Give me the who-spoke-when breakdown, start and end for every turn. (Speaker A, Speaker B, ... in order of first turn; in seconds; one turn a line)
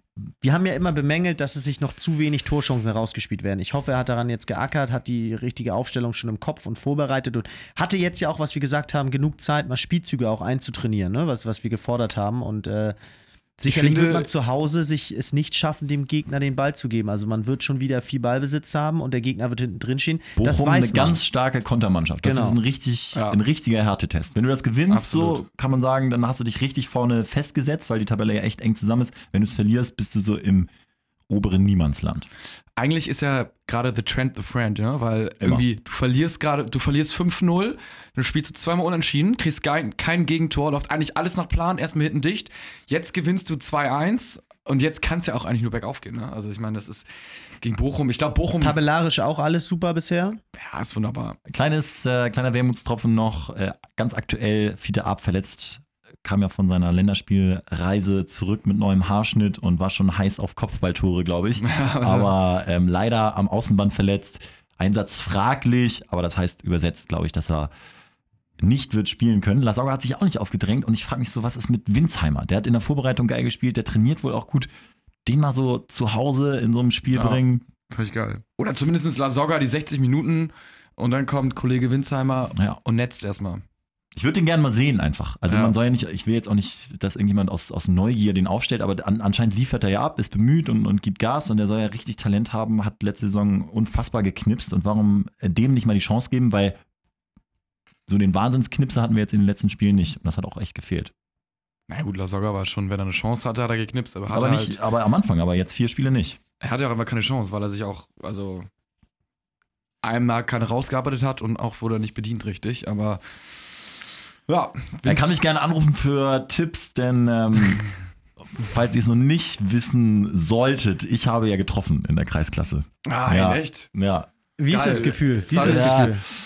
Speaker A: 0.4-13.0
Speaker A: 13.6-21.2
Speaker B: 13.7-14.3
Speaker C: 20.4-30.7
Speaker A: 22.2-22.6
Speaker B: 24.9-25.4
Speaker C: 31.3-32.3
Speaker B: 32.8-47.1
Speaker B: 47.6-48.8
Speaker A: 48.6-50.4
Speaker B: 50.5-51.4
Speaker C: 51.5-67.7
Speaker B: 61.6-62.3
Speaker C: 68.6-74.7
Speaker C: 75.2-77.7
Speaker B: 77.1-83.6
Speaker C: 84.2-96.8
Speaker B: 85.5-85.8
Speaker C: 98.1-101.1
Speaker B: 101.9-104.8
Speaker C: 104.3-106.4
Speaker B: 106.6-108.7
Speaker B: 110.0-114.0
Speaker B: 114.5-115.3
Speaker C: 115.0-117.8
Speaker C: 118.5-124.3
Speaker B: 123.1-123.9
Speaker A: 124.6-126.2
Speaker B: 124.7-126.1
Speaker C: 125.5-126.3